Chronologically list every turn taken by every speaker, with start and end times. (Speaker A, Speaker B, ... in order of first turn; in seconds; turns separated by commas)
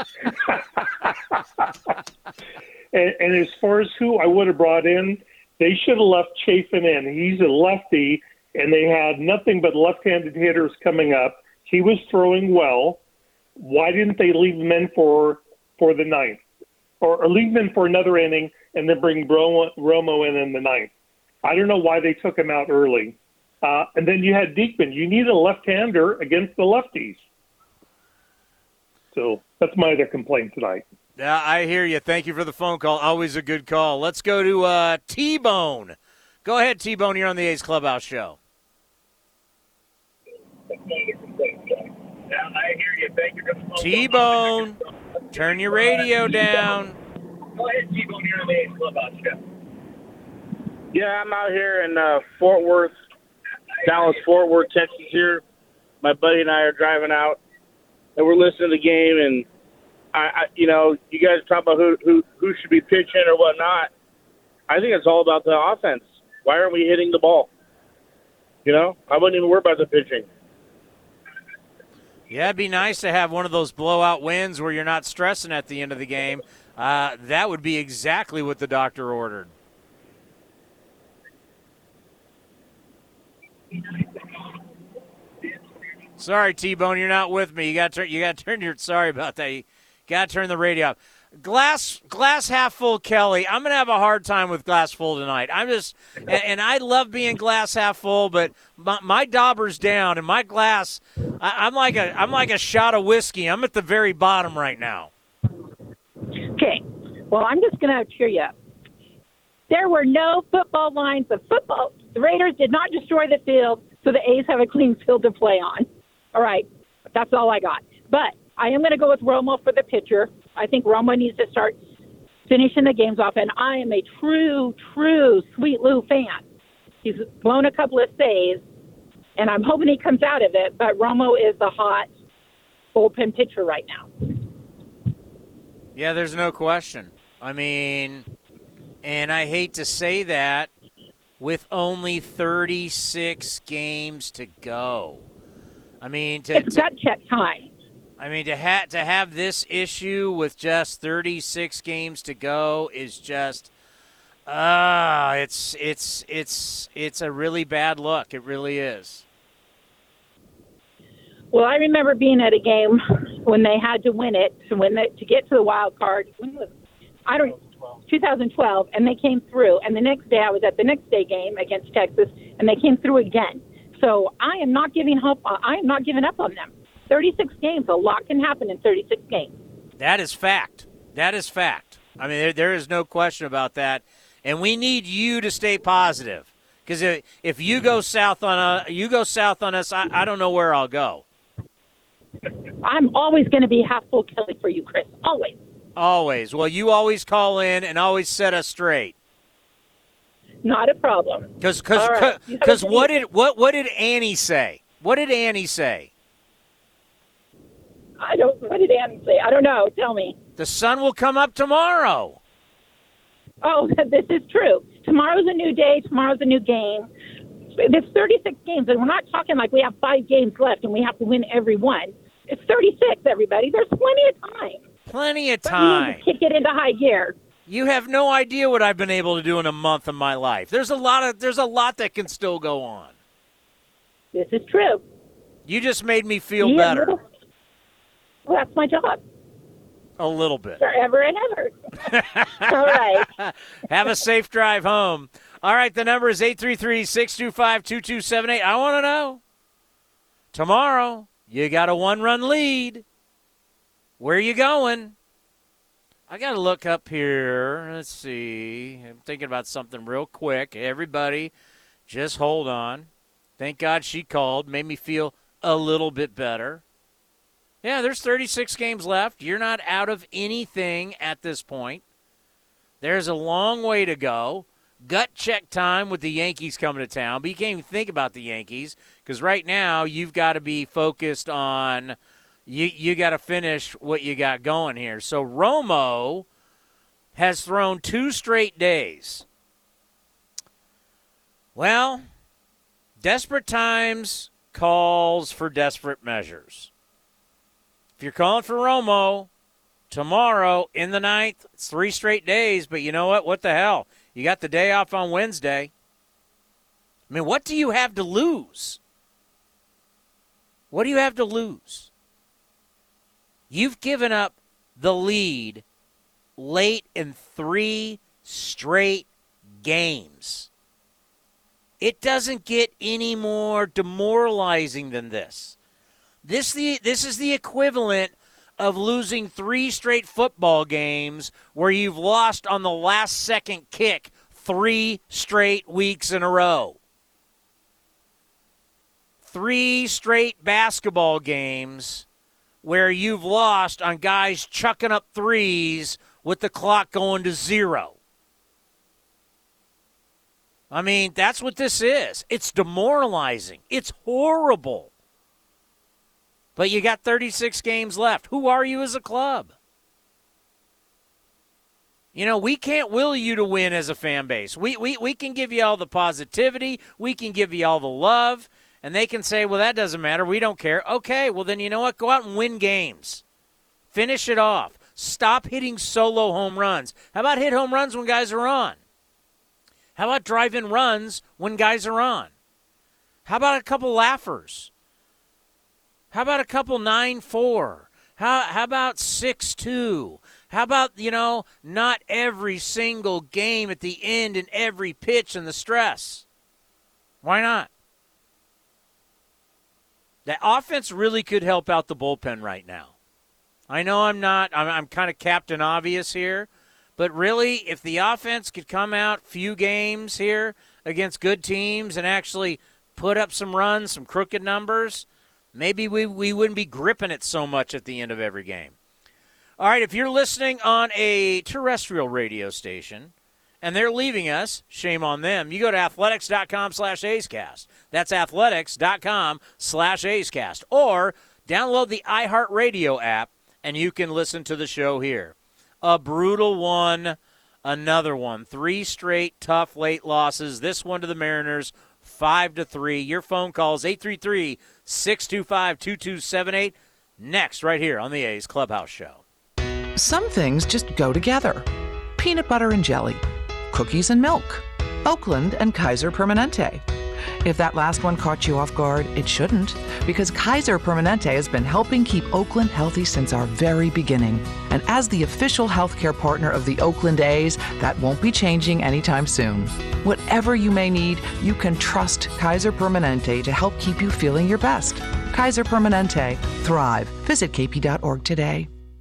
Speaker A: 2.9-13.0, Speaker A: 13.6-16.4, Speaker A: 17.0-20.9, Speaker A: 21.4-27.2, Speaker A: 29.1-30.8, Speaker B: 31.2-38.4, Speaker C: 42.8-43.7, Speaker B: 43.8-44.8, Speaker B: 45.3-47.0, Speaker C: 47.7-49.4, Speaker C: 50.9-52.9, Speaker C: 53.8-55.4, Speaker C: 56.0-57.4, Speaker C: 58.2-59.4, Speaker C: 60.1-63.9, Speaker C: 64.7-67.5, Speaker C: 68.7-70.2, Speaker B: 72.3-79.5, Speaker B: 86.2-105.1, Speaker D: 106.5-108.5, Speaker D: 109.7-121.8, Speaker D: 122.5-126.4, Speaker D: 127.0-128.6, Speaker D: 129.3-132.1, Speaker D: 132.9-134.1, Speaker B: 135.9-138.2, Speaker B: 139.0-140.7, Speaker B: 141.4-145.2, Speaker B: 146.0-146.8, Speaker D: 146.5-147.7, Speaker B: 148.2-153.7, Speaker B: 154.5-159.2, Speaker D: 161.5-166.7, Speaker D: 167.2-179.5, Speaker B: 180.0-191.2, Speaker D: 192.8-195.6, Speaker B: 195.9-199.1, Speaker D: 200.6-203.2, Speaker B: 201.6-206.1, Speaker D: 208.2-210.4, Speaker B: 210.6-212.4, Speaker D: 213.6-217.1, Speaker D: 217.8-224.8, Speaker B: 225.1-226.2, Speaker D: 225.7-227.3, Speaker B: 227.7-233.1, Speaker D: 234.3-235.0, Speaker B: 235.7-237.1, Speaker D: 236.6-237.2, Speaker D: 238.4-239.2, Speaker B: 240.2-240.8, Speaker D: 240.8-241.7, Speaker B: 242.1-249.4, Speaker D: 242.7-243.3, Speaker B: 250.5-253.0, Speaker B: 254.2-255.1, Speaker B: 256.3-261.5, Speaker B: 262.1-266.8, Speaker B: 267.8-272.0, Speaker B: 273.0-282.1, Speaker B: 282.7-286.4, Speaker B: 287.3-289.4, Speaker B: 291.7-292.2, Speaker B: 293.2-296.9, Speaker B: 298.2-299.5, Speaker B: 300.1-305.9, Speaker B: 307.3-309.0, Speaker B: 310.9-312.1, Speaker B: 313.7-315.8, Speaker B: 316.6-320.7, Speaker B: 322.0-325.8, Speaker B: 326.4-337.0, Speaker B: 339.4-342.2, Speaker B: 342.8-348.1, Speaker B: 350.9-355.1, Speaker B: 356.8-359.7, Speaker B: 362.3-373.4, Speaker B: 374.1-379.0, Speaker B: 380.1-382.5, Speaker B: 383.4-384.9, Speaker B: 386.3-396.4, Speaker B: 397.4-397.9, Speaker B: 400.4-403.1, Speaker B: 403.9-418.9, Speaker B: 419.8-449.4, Speaker E: 450.1-457.0, Speaker E: 457.6-478.9